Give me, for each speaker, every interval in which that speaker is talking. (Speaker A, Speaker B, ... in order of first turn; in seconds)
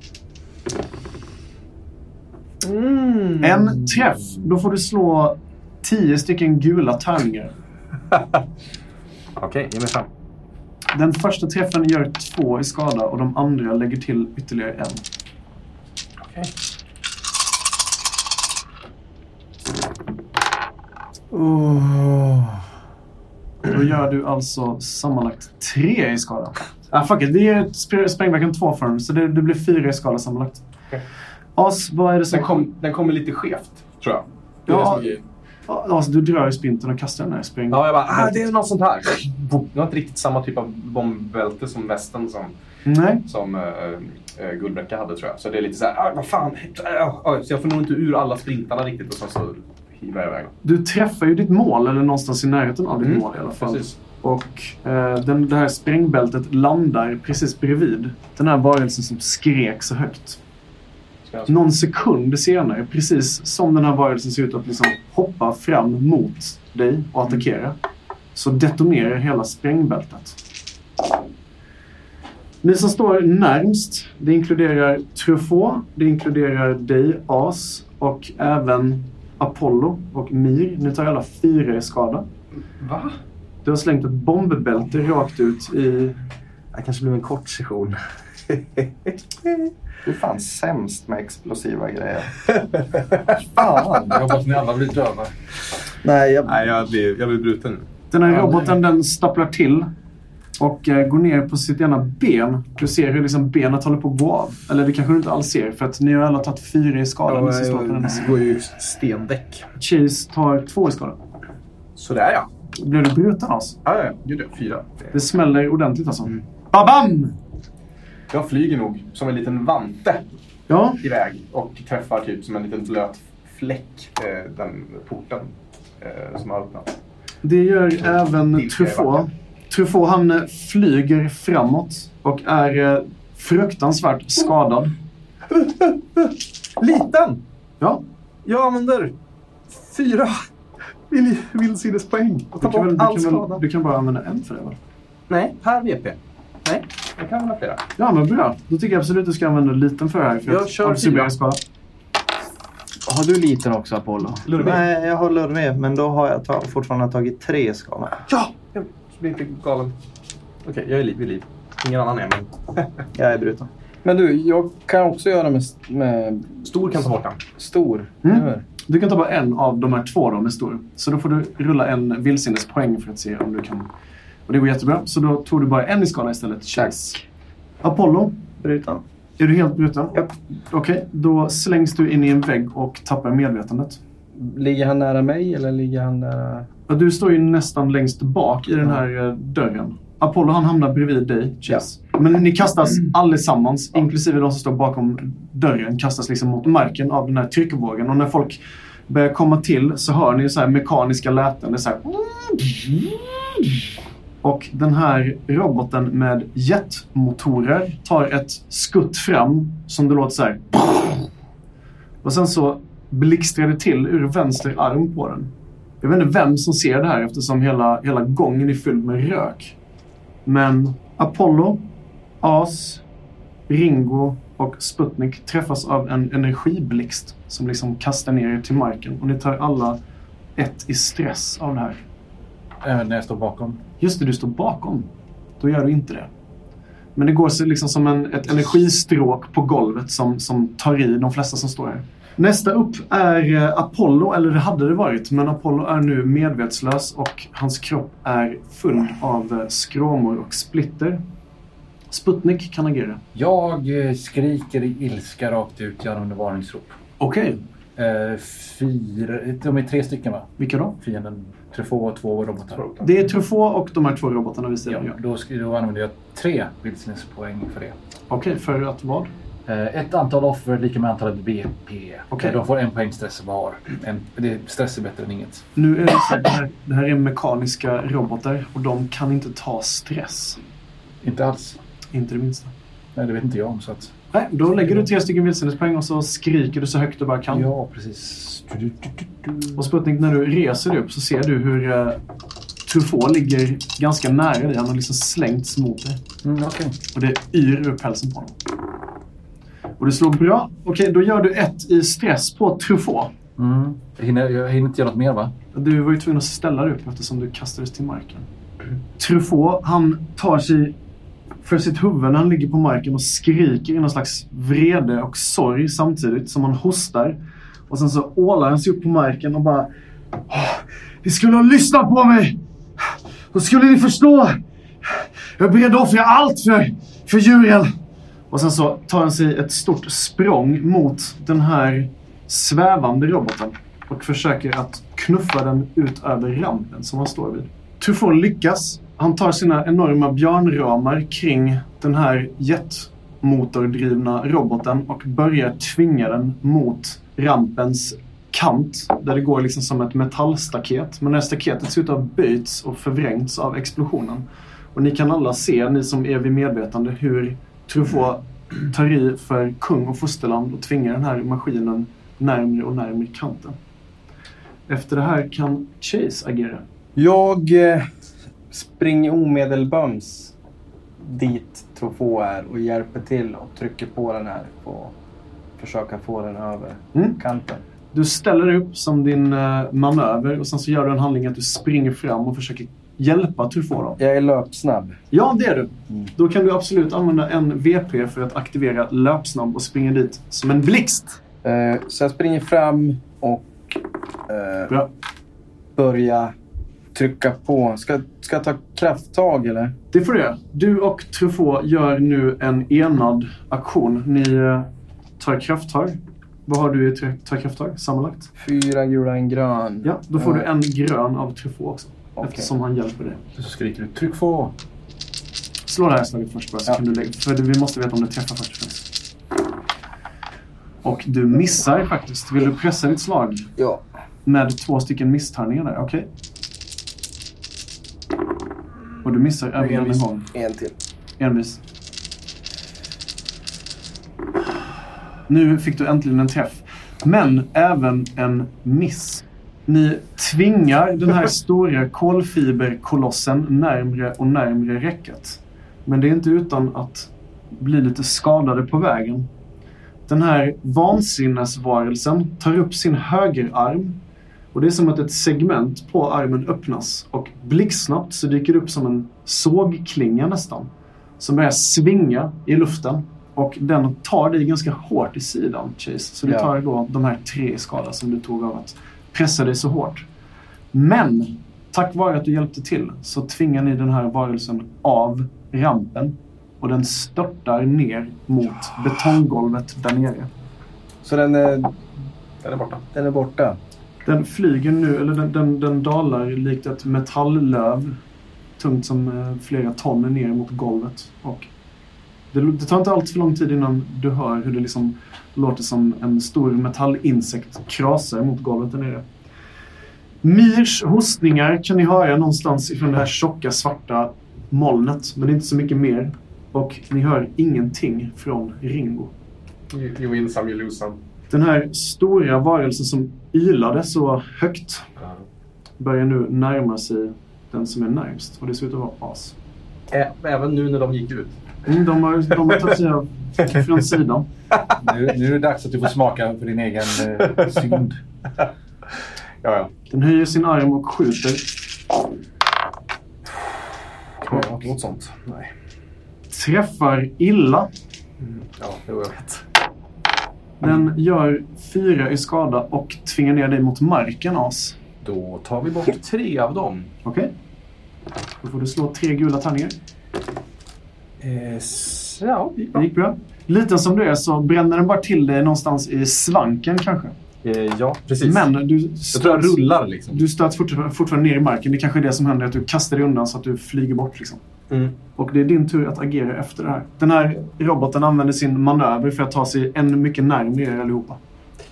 Speaker A: 2.6-4.1, 8.1-8.4, 9.4-10.1, 16.3-16.5, 32.3-35.2, 37.7-42.6, 43.2-50.5, 53.0-53.9, 82.8-83.2, 86.7-89.7, 92.5-93.3, 96.5-97.9, 107.3-109.7, 112.0-112.5, 113.8-115.1, 118.3-120.3, 121.0-127.0, 128.5-129.2, 135.5-137.4, 138.4-139.1, 139.7-140.5, 141.1-143.6, 145.3-147.8, 150.5-151.3, 154.5-154.8, 158.3-159.9, 160.7-163.0, 166.7-167.4, 482.6-483.0, 509.9-511.2, 520.1-521.6, 529.6-529.9, 534.4-535.7, 538.4-539.6, 545.2-547.1, 551.4-553.0, 557.6-558.7, 559.3-560.4, 564.9-565.1
Speaker B: 3.4-7.5, 10.9-15.0, 23.7-30.6, 31.6-32.7, 34.7-35.2, 35.7-38.5, 42.9-43.2, 50.6-60.4, 61.5-67.8, 68.3-70.4, 72.6-82.3, 83.7-86.2, 98.1-99.9, 100.6-108.3, 109.8-111.2, 112.7-113.8, 115.1-117.4, 120.7-121.0, 127.4-134.9, 142.6-144.8, 148.0-151.6, 168.2-173.9, 174.5-177.2, 177.8-178.6, 179.4-184.0, 186.9-203.2, 204.4-211.2, 212.2-219.8, 220.5-221.8, 222.4-223.0, 223.7-230.0, 230.6-232.0, 234.0-235.1, 235.6-236.3, 237.2-251.2, 252.1-253.2, 257.2-257.6, 260.6-261.0, 263.0-265.2, 268.3-269.3, 272.3-272.6, 275.8-280.6, 282.1-282.7, 284.3-287.7, 289.8-292.2, 292.9-296.2, 297.1-298.6, 300.0-303.3, 305.7-308.5, 309.2-311.0, 311.6-319.9, 320.5-327.9, 328.5-363.8, 364.9-366.8, 378.1-384.2, 385.3-391.4, 400.1-408.5, 410.0-413.4, 415.9-419.1, 421.0-423.7, 424.5-426.3, 429.2-430.5, 431.4-431.8, 435.5-449.5, 450.3-454.2, 454.7-470.3, 470.9-480.5, 484.2-488.2, 488.8-491.7, 492.5-499.3, 500.4-509.3, 511.5-515.1, 516.0-519.6, 521.9-524.5, 530.1-531.8, 536.5-537.9, 540.8-545.0, 547.2-547.5, 548.6-550.0, 552.9-557.4, 558.4-564.6, 565.4-571.4
Speaker C: 21.4-22.4, 153.1-154.5, 164.0-166.8, 167.6-168.6, 184.3-186.7, 367.2-368.1, 368.7-370.6, 371.2-375.2, 375.8-377.9, 384.2-385.2, 391.6-394.9, 396.0-396.6, 397.1-400.0, 408.6-410.6, 412.4-412.7, 423.8-424.0, 430.5-430.9, 466.4-466.7, 481.2-482.0, 483.1-483.8
Speaker D: 90.0-92.5, 93.6-94.2, 96.0-96.6, 154.6-158.2, 163.2-163.7, 178.6-179.0
Speaker E: 93.9-95.3, 232.8-233.8, 253.3-257.0, 258.0-263.1, 264.9-268.0, 269.7-275.6, 281.2-281.8, 283.2-284.1, 284.8-285.1, 287.5-289.8, 296.4-296.9, 303.6-305.5, 413.6-414.7, 525.0-528.2